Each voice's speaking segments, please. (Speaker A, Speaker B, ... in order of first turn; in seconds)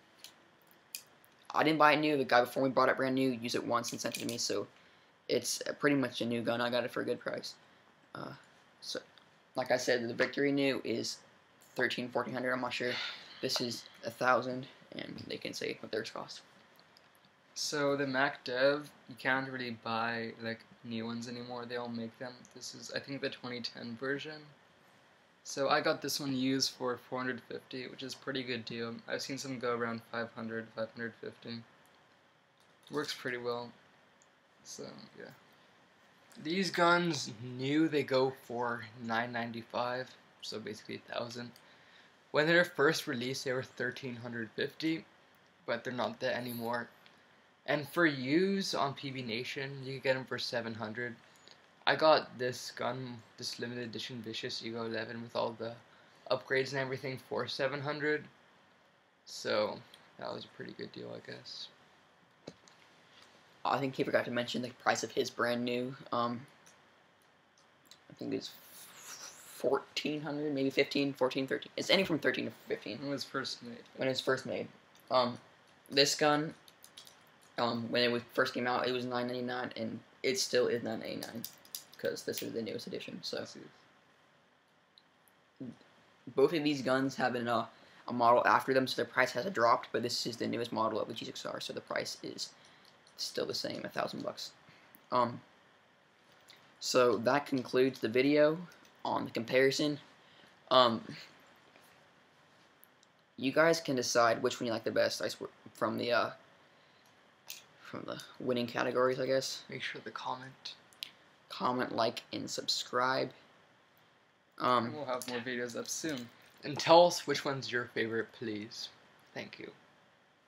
Speaker A: 1.5-4.7, 5.3-7.5, 8.1-9.0, 9.5-11.2, 11.7-16.4, 63.6-66.5, 68.1-73.0, 74.0-76.5, 77.6-81.5, 82.0-83.5, 86.3-92.5, 93.2-94.5, 95.1-95.4, 96.8-100.0, 100.7-101.2, 103.4-106.3, 107.8-109.6, 111.5-113.3, 114.6-115.0
Speaker B: 17.6-24.5, 25.4-31.6, 32.9-33.7, 34.6-35.4, 73.0-74.1, 83.4-83.7, 114.8-116.3
Speaker C: 36.4-41.5, 42.3-45.0, 45.6-46.9, 47.6-51.2, 51.8-58.3, 59.2-61.7, 109.7-110.8, 116.6-119.8